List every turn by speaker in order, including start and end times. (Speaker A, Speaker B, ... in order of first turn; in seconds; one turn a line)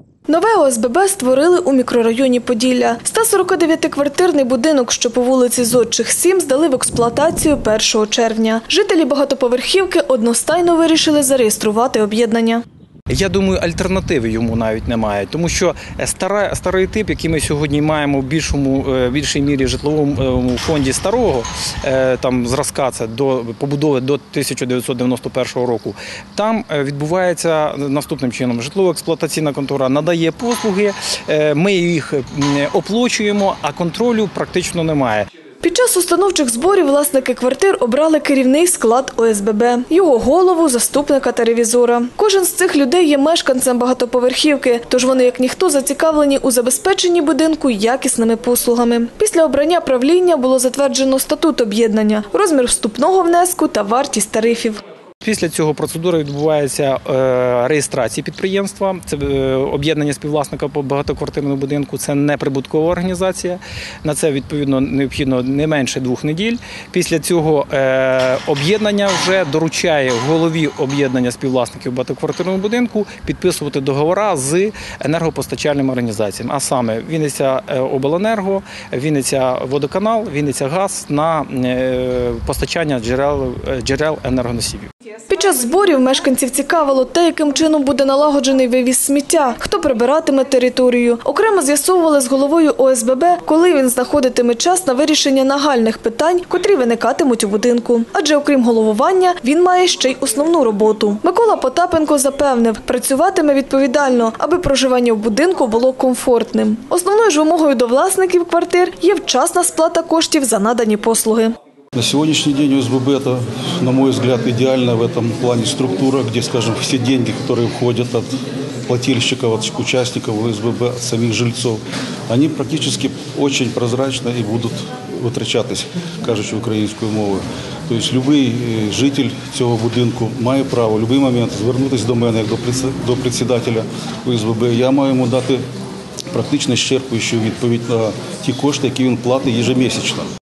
Speaker A: 0.3-12.6
Speaker B: 13.1-35.3
Speaker A: 35.6-54.8
Speaker B: 55.2-84.9
Speaker A: 85.3-111.5
Speaker C: 112.0-135.6
Speaker C: 136.3-140.3